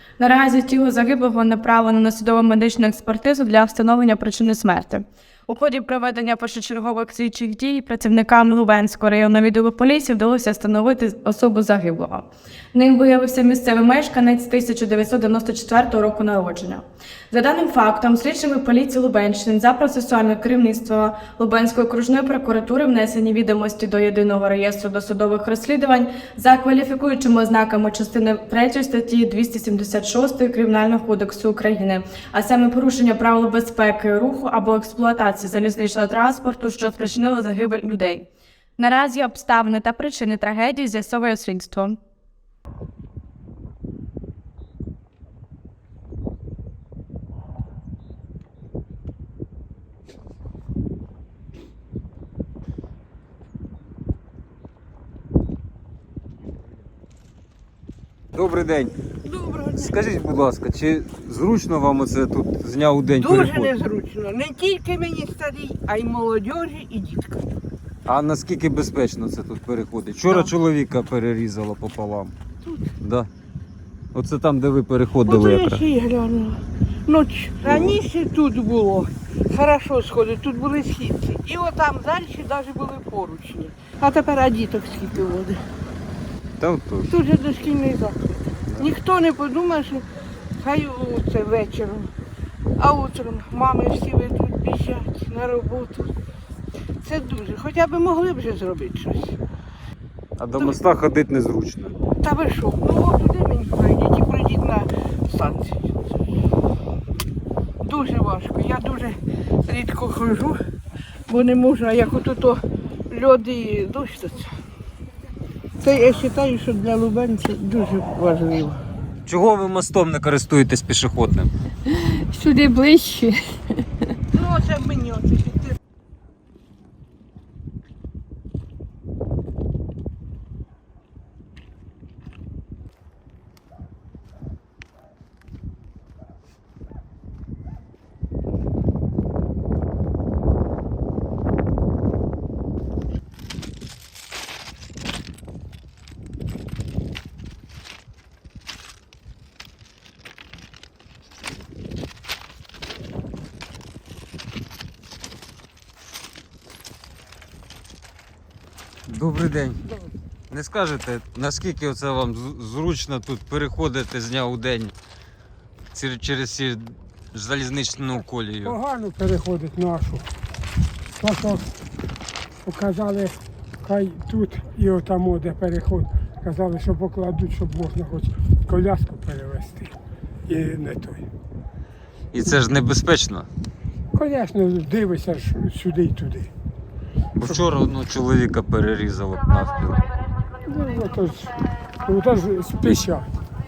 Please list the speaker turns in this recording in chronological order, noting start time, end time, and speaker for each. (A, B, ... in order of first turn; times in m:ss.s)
0:00.2-0:42.0 A
0:58.3-0:59.0 B
0:59.1-0:59.9 C
0:59.8-1:03.7 B
1:03.1-1:07.4 C
1:08.1-1:12.4 B
1:12.6-1:12.9 C
1:13.0-1:13.3 B
1:14.1-1:15.8 B
1:15.3-1:25.6 C
1:17.6-1:18.0 B
1:26.6-1:27.1 B
1:27.1-1:30.0 C
1:30.6-1:32.1 C
1:32.8-1:36.1 C
1:37.0-1:39.4 C
1:40.4-1:42.0 B
1:40.6-1:40.8 C
1:42.2-1:46.0 C
1:47.8-1:50.6 C
1:51.3-1:54.5 C
1:55.8-1:58.8 C
1:59.3-2:01.5 B
2:01.9-2:04.1 D
2:04.3-2:05.7 C
2:39.1-2:39.8 B
2:40.5-2:44.9 B
2:45.9-2:48.8 B
2:48.6-2:50.3 E
2:51.1-2:51.6 E
2:52.6-3:00.0 E
3:00.5-3:01.2 E
3:02.3-3:03.5 B
3:04.2-3:06.5 E
3:07.4-3:10.0 B
3:10.7-3:11.5 E
3:12.0-3:13.2 E